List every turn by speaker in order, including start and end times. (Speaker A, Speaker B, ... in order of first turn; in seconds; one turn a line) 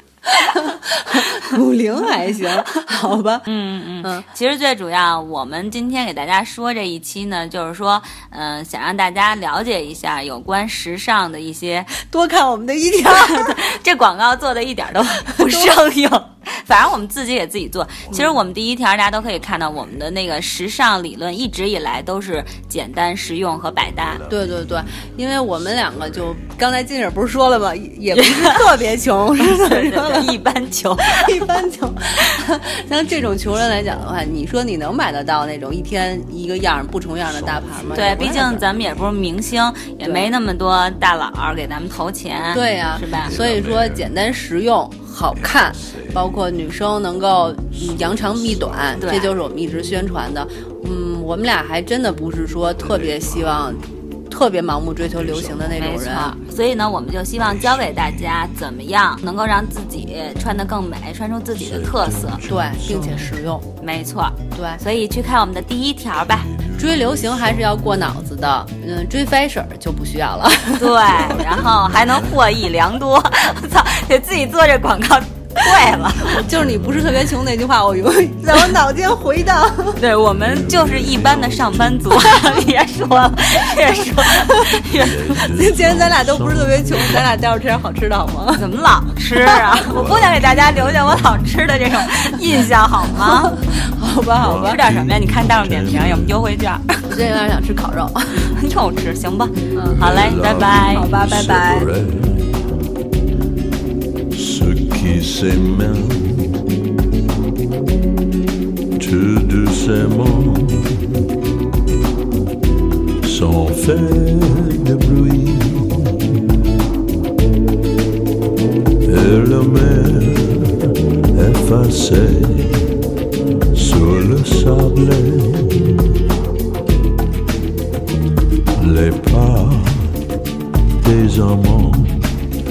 Speaker A: 0.3-1.5
Speaker B: 0.6-3.5
Speaker A: 3.5-12.0
Speaker B: 12.1-13.6
Speaker A: 13.1-24.2
Speaker B: 15.4-15.8
Speaker B: 24.3-30.3
Speaker A: 28.1-28.6
Speaker A: 29.4-31.5
Speaker B: 31.2-38.6
Speaker C: 37.3-38.6
Speaker A: 37.9-43.4
Speaker B: 40.0-40.3
Speaker B: 42.5-56.4
Speaker C: 43.2-44.1
Speaker C: 45.8-46.2
Speaker C: 47.9-49.3
Speaker A: 49.0-49.3
Speaker C: 52.9-53.8
Speaker C: 55.2-55.9
Speaker A: 55.8-62.4
Speaker C: 57.7-58.0
Speaker C: 61.6-63.4
Speaker B: 62.4-63.7
Speaker A: 63.8-66.5
Speaker B: 64.5-64.8
Speaker C: 66.5-67.4
Speaker B: 66.8-71.5
Speaker A: 70.8-76.4
Speaker C: 71.2-72.3
Speaker C: 76.1-77.2
Speaker B: 76.2-80.0
Speaker A: 80.0-85.5
Speaker C: 80.3-82.4
Speaker C: 84.6-87.3
Speaker B: 85.5-88.7
Speaker A: 88.5-93.6
Speaker B: 89.4-89.8
Speaker C: 89.7-91.8
Speaker C: 92.5-92.9
Speaker B: 93.3-94.8
Speaker C: 94.3-96.4
Speaker A: 94.5-97.1
Speaker B: 97.1-98.6
Speaker A: 98.3-101.2
Speaker B: 99.7-100.0
Speaker C: 100.0-102.7
Speaker B: 101.0-101.9
Speaker C: 104.3-106.6
Speaker C: 109.0-111.2
Speaker C: 113.2-116.4
Speaker C: 119.0-123.0
Speaker C: 123.7-126.2
Speaker C: 128.8-130.3
Speaker C: 131.0-132.4